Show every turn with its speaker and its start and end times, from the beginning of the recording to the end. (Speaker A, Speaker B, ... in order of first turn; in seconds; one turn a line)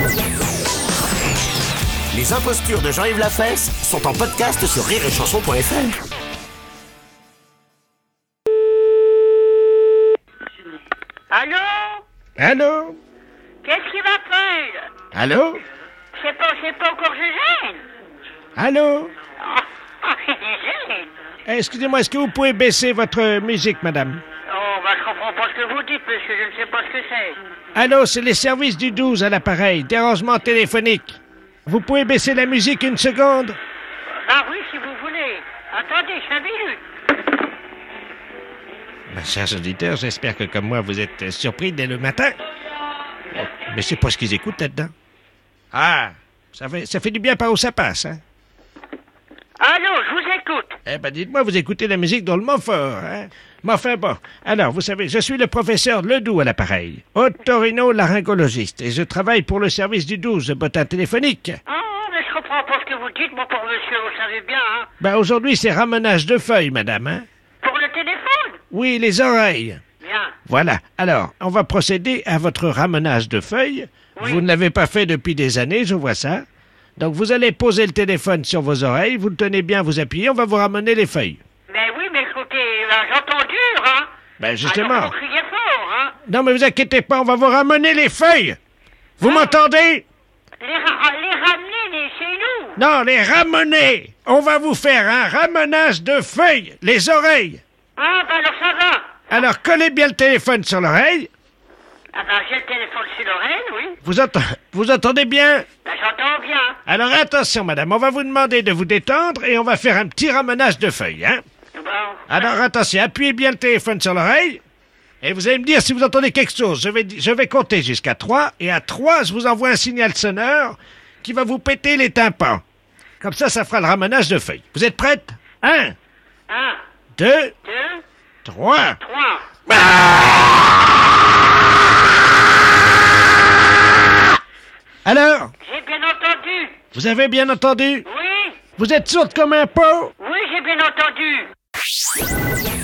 Speaker A: 2.1-6.0
Speaker B: 11.3-12.0
Speaker C: 12.4-13.0
Speaker B: 13.6-14.9
Speaker C: 15.1-15.6
Speaker B: 16.1-17.8
Speaker C: 18.6-19.1
Speaker B: 19.4-21.1
Speaker C: 21.5-24.2
Speaker B: 24.5-27.4
Speaker C: 27.8-33.6
Speaker B: 34.2-36.8
Speaker C: 39.1-42.4
Speaker C: 43.3-44.9
Speaker C: 45.7-48.2
Speaker B: 49.6-50.8
Speaker C: 50.9-61.6
Speaker B: 61.7-64.9
Speaker C: 65.0-67.2
Speaker B: 67.6-68.6
Speaker C: 68.7-69.8
Speaker B: 70.0-70.3
Speaker C: 70.5-76.4
Speaker B: 74.2-74.5
Speaker C: 77.0-81.4
Speaker B: 81.7-84.1
Speaker C: 84.4-85.1
Speaker B: 84.6-86.2
Speaker C: 86.3-88.6
Speaker C: 89.2-90.0
Speaker B: 89.2-89.6
Speaker B: 90.6-92.8
Speaker C: 92.8-97.6
Speaker B: 98.0-99.1
Speaker C: 99.3-101.3
Speaker B: 102.1-104.0
Speaker C: 104.0-105.7
Speaker B: 105.8-106.8
Speaker C: 106.9-111.4
Speaker B: 111.7-112.5
Speaker C: 112.3-114.6
Speaker C: 115.2-122.6
Speaker C: 123.2-126.0
Speaker B: 126.5-126.8
Speaker C: 127.2-127.5
Speaker B: 127.7-128.0
Speaker C: 128.4-129.0
Speaker B: 129.0-129.5
Speaker C: 135.1-135.5
Speaker B: 135.6-136.8
Speaker C: 136.9-138.1
Speaker B: 138.1-138.6
Speaker C: 138.8-140.1
Speaker B: 140.2-141.5